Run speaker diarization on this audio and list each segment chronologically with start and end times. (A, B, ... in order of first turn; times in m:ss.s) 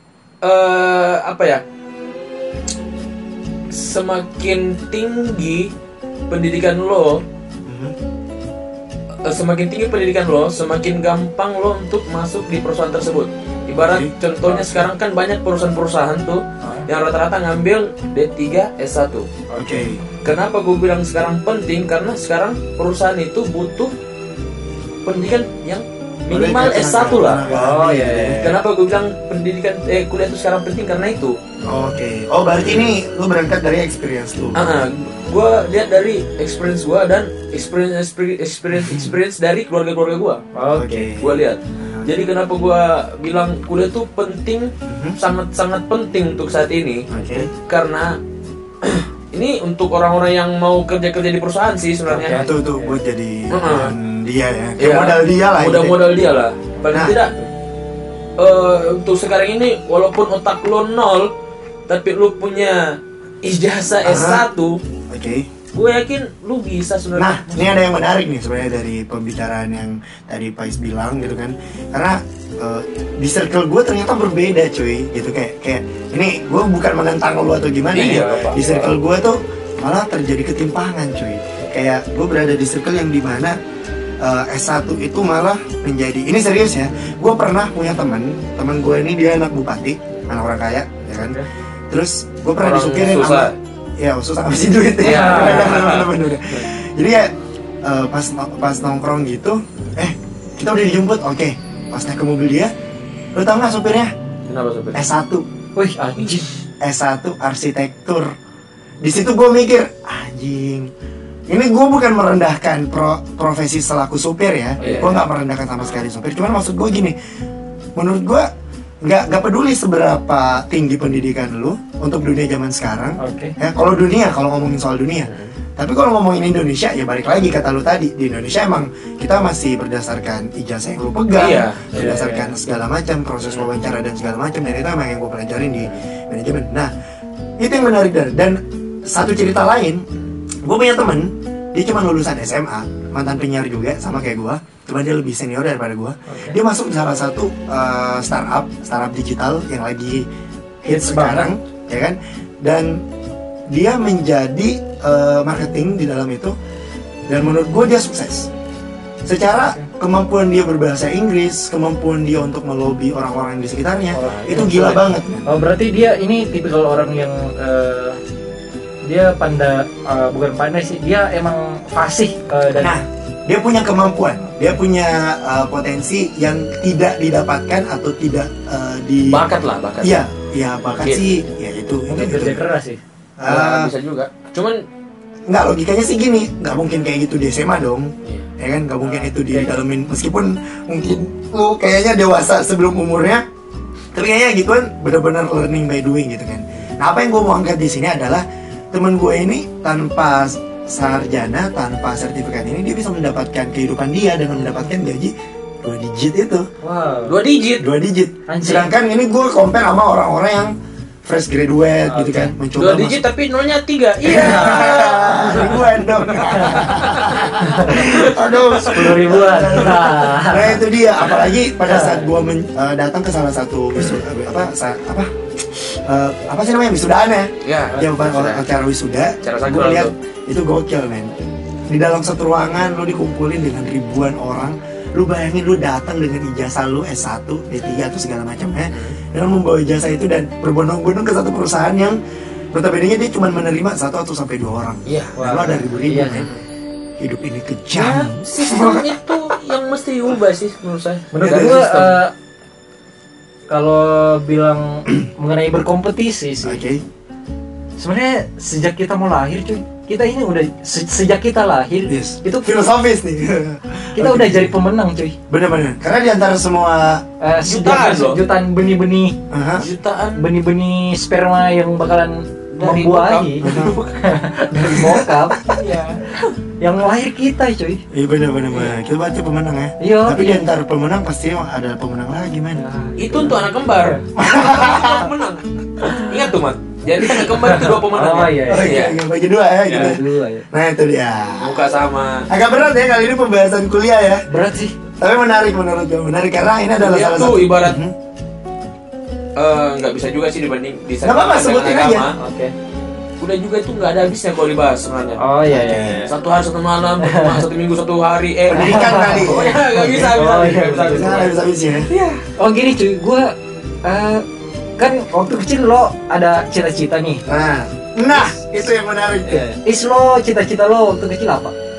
0:00.4-0:01.6 A
0:03.7-0:05.7 A
0:06.3-0:07.2 A
0:07.6-0:08.0 B
0:09.2-0:19.3 A
0:13.8-0:14.1 B
0:14.5-0:14.8 C
0:16.6-0:16.9 C
0:19.5-0:19.9 C
0:19.6-0:20.0 B
0:20.2-0:23.9 A
0:25.0-0:27.4 A
0:26.3-0:28.5 B
0:27.5-0:28.6 C
0:28.4-0:31.4 A
0:31.6-0:34.6 B
0:32.6-0:32.9 A
0:34.6-0:40.4 A
0:38.8-0:39.1 B
0:40.6-0:40.9 C
0:40.8-0:42.1 B
0:41.0-0:48.2 A
0:44.9-0:45.2 B
0:47.1-0:47.5 B
0:48.8-0:52.5 A
0:52.1-0:53.0 C
0:52.3-0:56.0 B
0:53.5-0:53.9 A
0:54.8-0:57.4 A
0:58.4-1:01.3 A
1:01.9-1:04.8 A
1:04.0-1:04.5 B
1:05.1-1:05.5 B
1:05.7-1:07.9 A
1:07.2-1:23.6 B
1:17.9-1:18.9 A
1:18.0-1:18.8 C
1:24.2-1:42.7 B
1:32.6-1:33.6 A
1:35.0-1:36.6 A
1:35.0-1:35.8 C
1:43.3-1:44.1 B
1:44.5-1:45.0 A
1:44.9-1:45.4 B
1:45.8-1:46.5 C
1:46.8-1:48.3 B
1:49.0-1:50.9 B
1:51.5-1:57.2 B
1:54.8-1:55.2 C
1:54.8-1:55.2 A
1:58.0-1:58.5 B
1:59.0-2:16.9 B
2:03.2-2:03.5 C
2:05.2-2:05.5 A
2:11.4-2:11.9 A
2:11.9-2:12.5 C
2:17.6-2:20.0 B
2:20.6-2:30.3 B
2:26.3-2:26.6 C
2:30.8-2:33.0 B
2:30.9-2:31.5 C
2:33.7-2:36.6 B
2:37.3-2:38.5 B
2:39.2-2:45.4 B
2:39.6-2:39.9 C
2:44.1-2:48.2 C
2:49.0-2:53.0 C
2:52.8-2:59.5 B
2:59.3-3:00.2 A
3:00.0-3:02.6 B
3:02.1-3:03.0 C
3:03.4-3:03.9 B
3:03.4-3:04.8 A
3:05.5-3:13.4 B
3:09.0-3:09.7 C
3:14.2-3:26.7 B
3:26.8-3:27.4 C
3:27.3-3:27.9 A
3:27.8-3:30.7 B
3:28.5-3:28.9 C
3:31.2-3:33.2 B
3:32.1-3:32.5 C
3:32.8-3:39.2 A
3:34.3-4:02.2 B
3:34.3-3:35.0 C
3:36.5-3:36.8 C
3:37.6-3:38.3 C
3:38.8-3:40.8 C
3:41.2-3:41.5 A
3:41.8-3:42.3 C
3:47.6-3:48.7 A
3:49.4-3:50.1 A
3:58.9-3:59.2 A
4:02.7-4:06.5 B
4:05.1-4:05.4 A
4:05.4-4:06.5 C
4:06.3-4:06.6 A
4:07.2-4:09.1 B
4:07.9-4:12.2 A
4:11.3-4:12.3 C
4:11.4-4:11.8 B
4:13.7-4:16.8 C
4:16.6-4:17.0 B
4:18.0-4:22.7 C
4:22.1-4:24.7 B
4:24.2-4:25.4 C
4:25.5-4:27.2 B
4:27.4-4:29.4 C
4:27.6-4:28.4 A
4:29.5-4:29.9 B
4:29.8-4:30.4 A
4:30.4-4:33.6 C
4:32.8-4:34.1 A
4:33.6-4:34.0 B
4:34.2-4:35.6 C
4:34.9-4:35.4 B
4:35.7-4:36.5 A
4:36.8-4:38.0 C
4:38.1-4:42.8 B
4:40.0-4:40.6 C
4:42.8-4:44.2 C
4:43.2-4:49.2 A
4:44.4-4:45.3 B
4:46.0-4:46.3 C
4:47.5-4:49.0 C
4:48.7-4:51.8 B
4:49.9-4:50.2 A
4:49.9-4:50.7 C
4:51.6-4:52.5 A
4:52.5-4:54.5 B
4:54.5-4:55.0 C
4:55.2-4:58.1 B
4:57.0-4:58.0 A
4:59.6-5:02.4 A
5:01.2-5:02.3 B
5:02.4-5:02.7 C
5:03.4-5:05.4 A
5:05.4-5:06.3 C
5:05.7-5:06.2 B
5:06.3-5:12.4 A
5:07.2-5:07.6 C
5:08.7-5:10.4 B
5:08.8-5:11.5 C
5:11.1-5:12.1 B
5:12.6-5:14.4 C
5:15.0-5:17.4 C
5:17.5-5:19.6 B
5:19.5-5:21.7 C